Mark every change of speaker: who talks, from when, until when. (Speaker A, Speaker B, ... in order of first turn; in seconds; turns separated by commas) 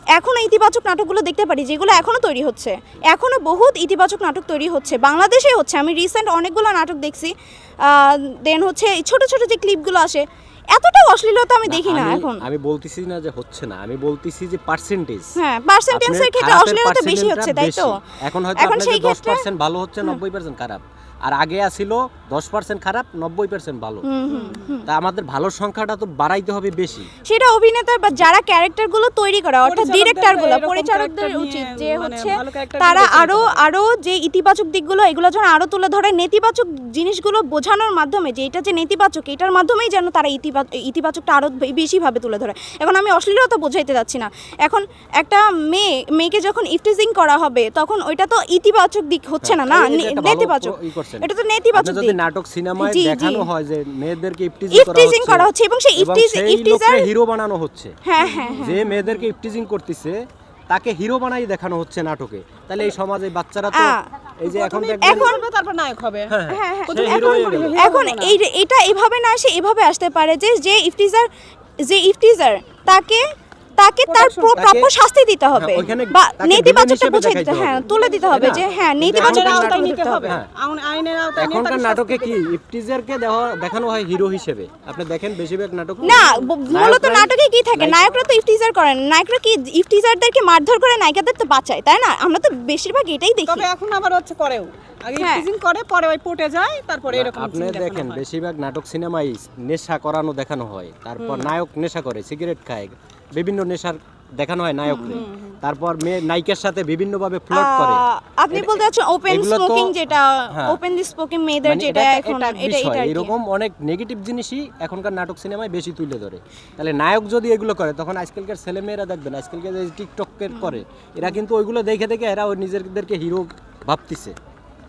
Speaker A: 0.1-12.4, Speaker B: 11.6-15.3, Speaker A: 15.4-18.0, Speaker B: 15.9-24.1, Speaker A: 18.6-19.4, Speaker A: 24.1-24.9, Speaker C: 24.3-24.6, Speaker B: 24.8-27.1, Speaker A: 27.2-52.2, Speaker C: 29.6-33.6, Speaker B: 49.4-57.9, Speaker A: 52.8-53.5, Speaker A: 54.7-57.1, Speaker A: 58.0-58.8, Speaker C: 58.2-59.2, Speaker B: 58.5-60.2, Speaker B: 60.7-65.3, Speaker A: 63.8-64.0, Speaker C: 64.4-68.4, Speaker A: 65.0-65.4, Speaker B: 66.3-67.8, Speaker A: 66.5-71.3, Speaker A: 71.8-73.2, Speaker A: 73.8-80.4, Speaker C: 74.0-74.6, Speaker B: 74.5-74.9, Speaker B: 75.5-80.5, Speaker C: 77.9-82.4, Speaker B: 81.3-88.0, Speaker A: 86.0-93.7, Speaker C: 86.1-86.4, Speaker C: 93.4-98.2, Speaker A: 95.2-95.5, Speaker B: 97.1-109.9, Speaker A: 101.2-101.5, Speaker A: 104.9-105.2, Speaker C: 105.0-105.6, Speaker A: 107.5-113.3, Speaker B: 110.5-110.8, Speaker B: 111.6-124.3, Speaker A: 120.5-120.8